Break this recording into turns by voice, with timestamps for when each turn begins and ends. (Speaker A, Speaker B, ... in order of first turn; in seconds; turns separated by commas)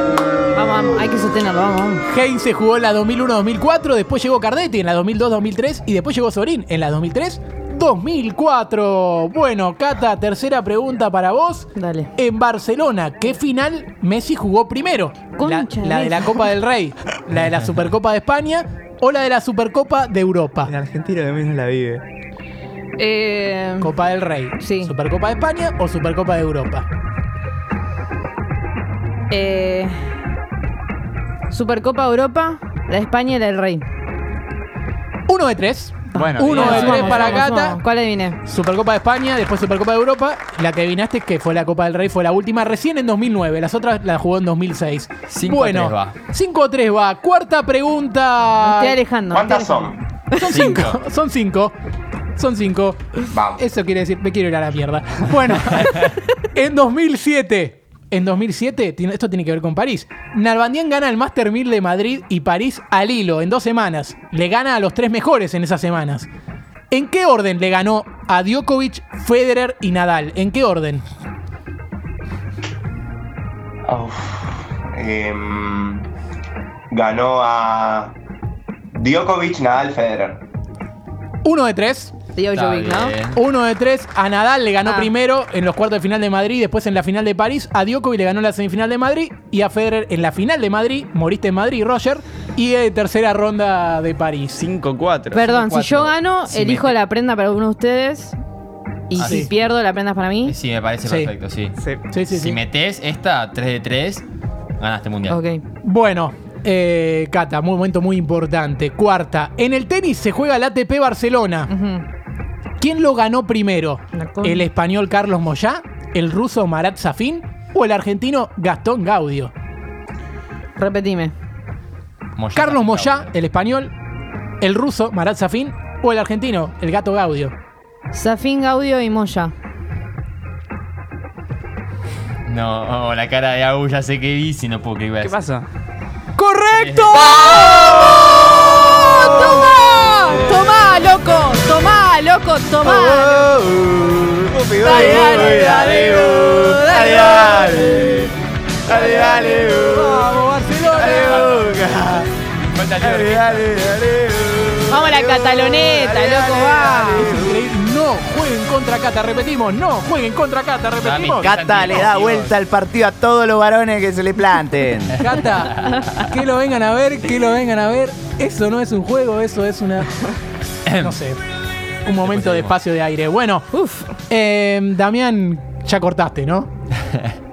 Speaker A: 0.5-2.0, Speaker B: 2.1-20.7, Speaker A: 11.8-12.1, Speaker A: 15.4-16.4, Speaker C: 20.6-22.0, Speaker A: 23.0-23.9, Speaker B: 23.8-26.9, Speaker A: 24.6-24.9, Speaker A: 29.3-30.0, Speaker A: 31.5-33.9, Speaker B: 35.3-37.8, Speaker A: 36.1-38.4, Speaker C: 36.2-37.4, Speaker D: 36.5-37.5, Speaker B: 38.5-49.0, Speaker D: 45.3-46.2, Speaker A: 48.6-50.8, Speaker E: 49.3-50.0, Speaker B: 50.3-51.8, Speaker B: 52.4-53.0, Speaker E: 53.3-53.6, Speaker B: 53.6-66.3, Speaker B: 66.9-71.0, Speaker E: 73.9-76.0, Speaker E: 76.9-78.2, Speaker E: 78.9-80.4, Speaker B: 81.4-82.2, Speaker A: 82.4-83.2, Speaker D: 82.5-83.4, Speaker B: 83.3-94.7, Speaker A: 84.8-85.1, Speaker C: 94.6-95.6, Speaker A: 95.3-98.4, Speaker D: 95.5-96.1, Speaker C: 96.5-96.9, Speaker A: 99.1-100.5, Speaker D: 99.2-99.5, Speaker B: 99.2-99.5, Speaker D: 100.5-101.8, Speaker B: 101.0-101.3, Speaker B: 102.1-102.6, Speaker D: 102.3-104.2, Speaker D: 104.8-105.4, Speaker A: 105.3-105.6, Speaker B: 105.8-111.7, Speaker A: 111.7-112.0, Speaker B: 112.8-119.5, Speaker A: 114.1-114.7, Speaker A: 120.8-121.3, Speaker D: 122.4-123.3, Speaker B: 122.5-123.9, Speaker B: 124.6-127.5, Speaker A: 128.1-129.5, Speaker D: 132.5-135.4, Speaker C: 135.2-135.7, Speaker B: 136.4-140.6, Speaker D: 136.7-137.3, Speaker F: 137.4-140.6, Speaker A: 139.0-143.5, Speaker F: 142.8-152.3, Speaker A: 144.8-148.2, Speaker B: 149.0-152.1, Speaker D: 150.9-153.8, Speaker F: 153.0-157.7, Speaker A: 154.9-157.4, Speaker B: 157.1-161.6, Speaker D: 161.0-162.6, Speaker F: 161.4-165.3, Speaker D: 165.1-166.1, Speaker B: 165.2-170.2, Speaker D: 170.9-171.2, Speaker B: 170.9-171.4, Speaker B: 172.1-173.7, Speaker D: 172.2-172.7, Speaker A: 173.7-174.1, Speaker B: 174.3-176.7